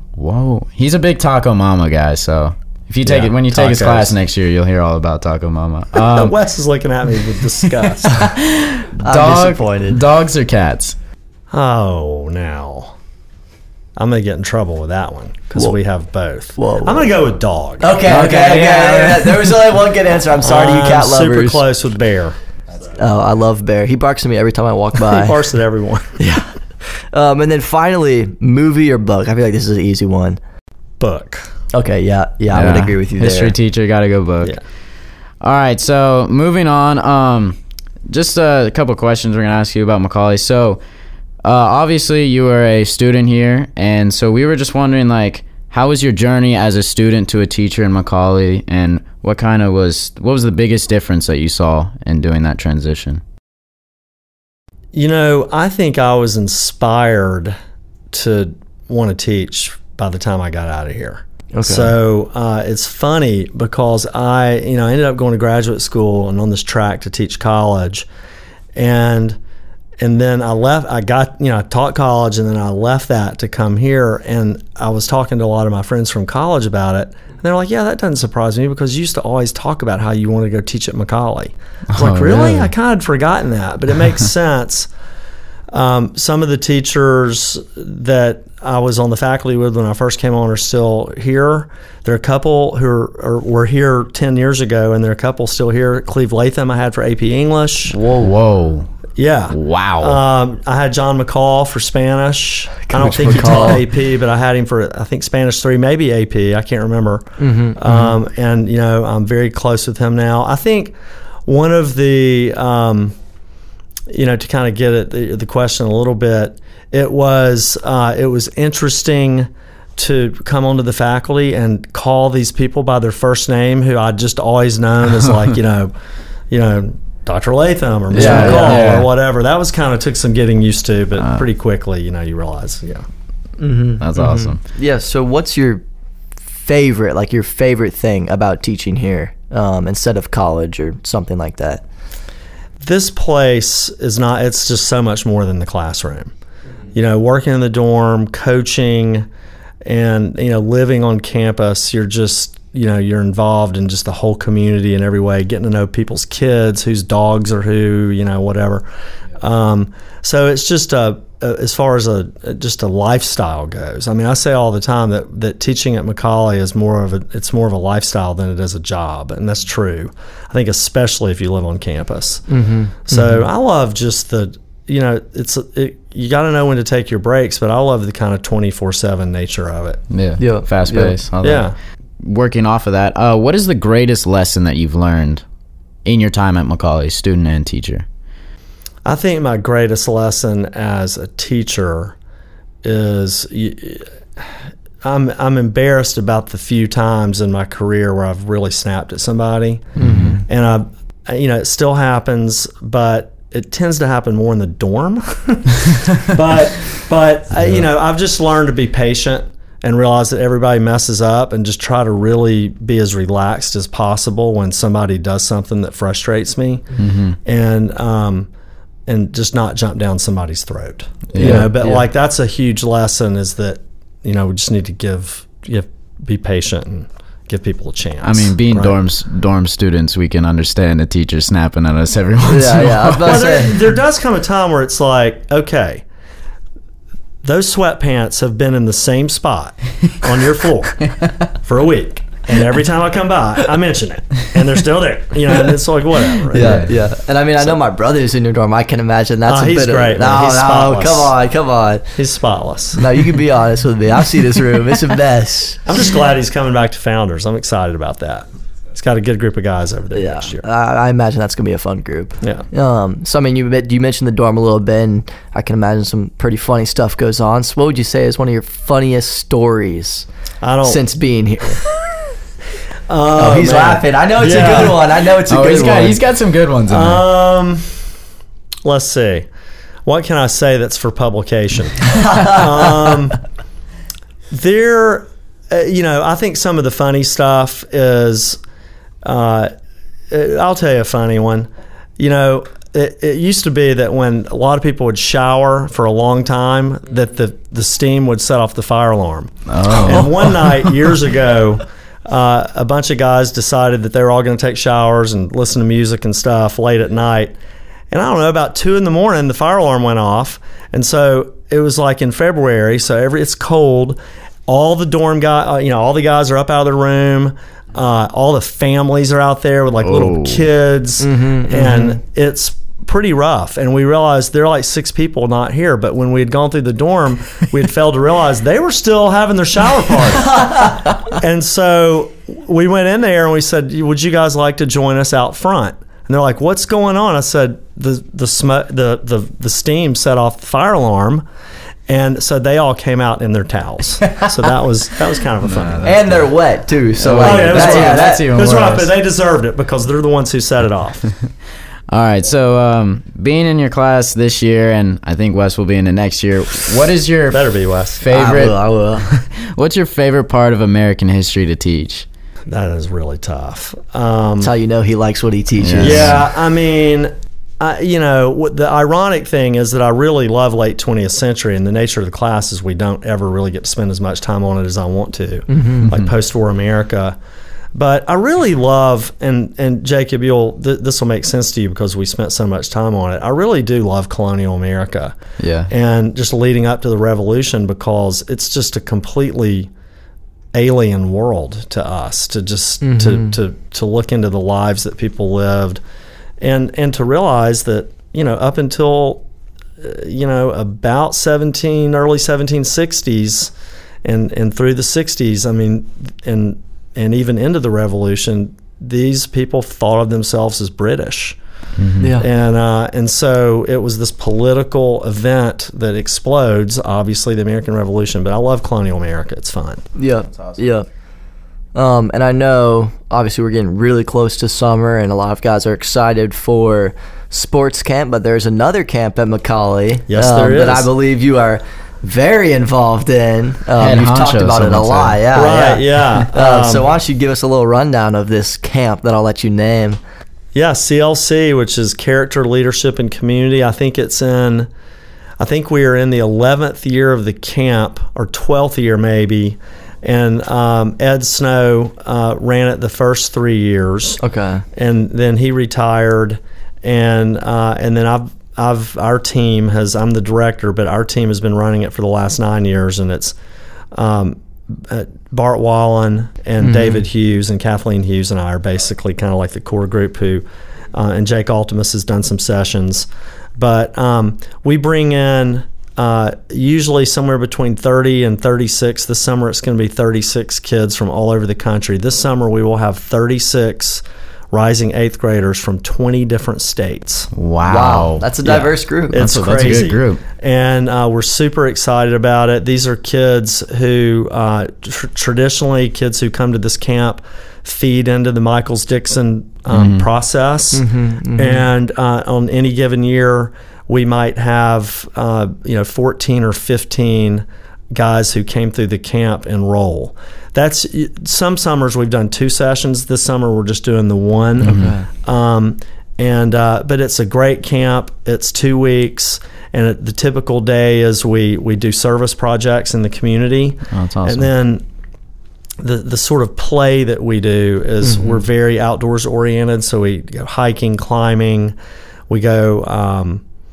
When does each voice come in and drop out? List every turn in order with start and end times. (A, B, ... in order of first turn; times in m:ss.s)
0:00.2-0:06.4 A
0:03.0-0:04.2 B
0:06.0-0:08.3 B
0:07.6-0:11.0 A
0:09.0-0:10.0 C
0:11.5-0:12.9 B
0:14.0-0:18.0 B
0:16.6-0:17.1 C
0:17.8-0:21.7 C
0:18.1-0:19.7 A
0:20.4-0:22.4 B
0:22.8-0:25.4 C
0:25.0-0:26.2 B
0:26.2-0:26.5 C
0:27.1-0:30.4 C
0:31.0-0:31.5 B
0:31.7-0:33.5 C
0:32.5-0:34.6 A
0:35.4-0:37.6 A
0:38.1-0:40.8 A
0:41.4-0:53.2 A
0:54.9-0:57.5 B
0:58.1-1:08.1 B
1:01.5-1:01.9 C
1:08.7-1:09.4 B
1:10.0-1:24.9 B
1:21.9-1:22.7 A
1:25.7-1:38.0 B
1:37.9-1:38.3 C
1:38.2-1:38.9 A
1:39.2-1:50.9 B
1:39.5-1:40.2 A
1:42.9-1:43.8 C
1:47.4-1:48.1 C
1:51.4-1:53.1 B
1:54.1-2:05.9 B
2:06.5-2:13.0 B
2:08.1-2:08.9 C
2:08.1-2:09.1 A
2:11.2-2:11.4 A
2:13.6-2:15.8 C
2:14.0-2:14.6 A
2:16.6-2:21.8 C
2:22.8-2:26.3 B
2:26.9-2:29.3 B
2:29.8-2:38.8 B
2:39.4-2:52.4 B
2:52.5-2:53.4 C
2:53.0-3:00.0 B
3:00.1-3:01.7 A
3:00.4-3:01.2 C
3:01.4-3:01.7 B
3:02.2-3:05.4 A
3:06.0-3:08.0 A
3:09.0-3:12.1 B
3:12.8-3:14.5 B
3:15.0-3:36.9 B
3:20.0-3:20.4 C
3:20.0-3:20.4 A
3:37.0-3:37.4 A
3:37.4-3:38.5 B
3:39.1-3:49.0 B
3:41.3-3:41.7 A
3:41.4-3:42.0 C
3:48.2-3:53.5 A
3:52.5-3:53.8 C
3:53.2-3:56.0 B
3:57.4-4:01.0 B
4:01.6-4:06.9 B
4:06.5-4:12.1 C
4:06.6-4:06.9 A
4:09.5-4:11.3 B
4:12.2-4:13.0 B
4:13.0-4:15.8 C
4:15.8-4:20.6 B
4:20.1-4:30.2 C
4:30.6-4:31.0 B
4:30.8-4:31.8 C
4:33.1-4:35.1 B
4:33.3-4:36.2 C
4:35.5-4:37.2 A
4:36.9-4:37.8 B
4:38.8-4:39.5 B
4:40.0-4:43.4 B
4:42.1-4:42.9 C
4:44.5-4:48.6 B
4:49.2-4:49.7 B
4:50.3-5:07.6 B
4:59.7-5:00.6 A
5:08.1-5:41.4 B
5:20.0-5:20.7 A
5:21.2-5:22.2 C
5:30.5-5:31.0 C
5:42.1-5:46.2 B
5:45.6-5:46.5 A
5:46.0-5:48.5 C
5:47.2-5:49.1 A
5:47.3-5:51.3 B
5:52.1-5:57.7 A
5:57.5-5:58.2 B
5:58.2-6:02.2 A
5:58.3-5:59.3 C
6:02.7-6:04.7 B
6:04.6-6:06.4 C
6:05.8-6:06.4 A
6:06.0-6:17.4 B
6:15.7-6:16.1 C
6:17.9-6:25.4 B
6:25.6-6:25.9 A
6:25.9-6:29.9 B
6:30.7-6:36.0 B
6:33.0-6:33.6 C
6:36.6-6:39.4 B
6:40.0-6:43.7 B
6:44.2-6:51.6 B
6:52.0-6:52.3 A
6:52.2-6:52.5 C
6:52.4-7:00.0 B
7:00.2-7:01.0 C
7:01.9-7:20.2 C
7:10.3-7:11.1 B
7:14.0-7:15.4 A
7:15.5-7:17.1 B
7:20.7-7:24.9 B
7:25.6-7:34.4 B
7:34.4-7:34.8 C
7:35.0-7:43.5 B
7:44.1-8:07.5 B
7:46.8-7:47.2 C
8:07.5-8:10.4 A
8:07.8-8:09.4 C
8:08.7-8:21.0 B
8:19.9-8:20.3 A
8:20.9-8:21.8 C
8:21.6-8:45.0 B
8:34.8-8:35.3 C
8:34.8-8:35.1 A
8:44.1-8:44.7 A
8:46.0-8:51.9 B
8:48.2-8:48.6 C
8:52.5-8:53.6 B